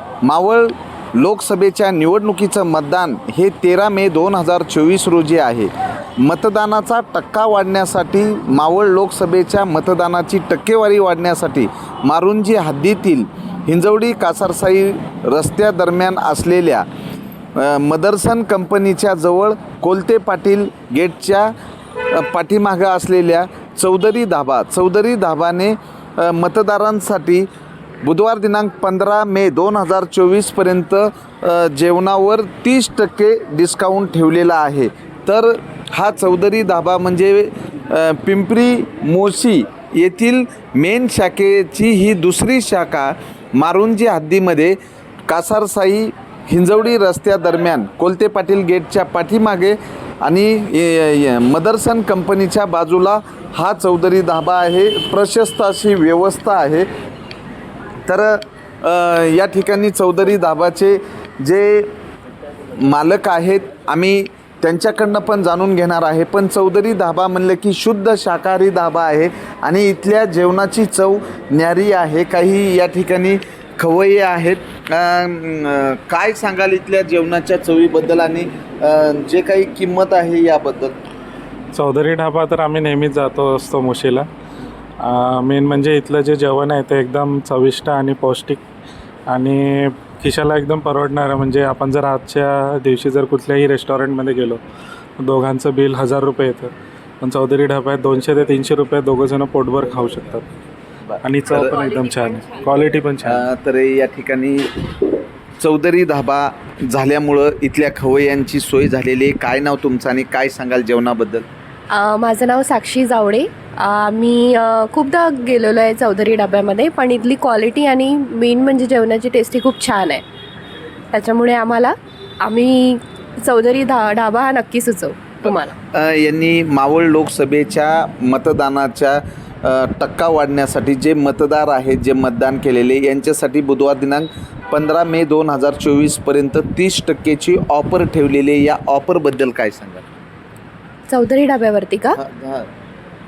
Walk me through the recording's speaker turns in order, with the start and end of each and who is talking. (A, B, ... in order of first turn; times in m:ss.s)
0:00.2-0:16.9 A
0:17.6-0:21.5 A
0:22.1-0:27.5 A
0:28.0-0:56.9 A
0:58.1-1:01.9 A
1:02.8-1:20.9 A
1:21.7-1:24.3 B
1:25.0-1:28.6 B
1:29.3-1:34.6 B
1:35.2-1:40.4 B
1:41.0-1:41.7 A
1:41.2-1:43.4 B
1:43.2-1:44.9 A
1:45.6-1:51.4 A
1:51.9-2:00.2 C
2:01.1-2:05.7 C
2:05.9-2:20.0 A
2:21.1-2:22.2 C
2:22.2-2:22.7 A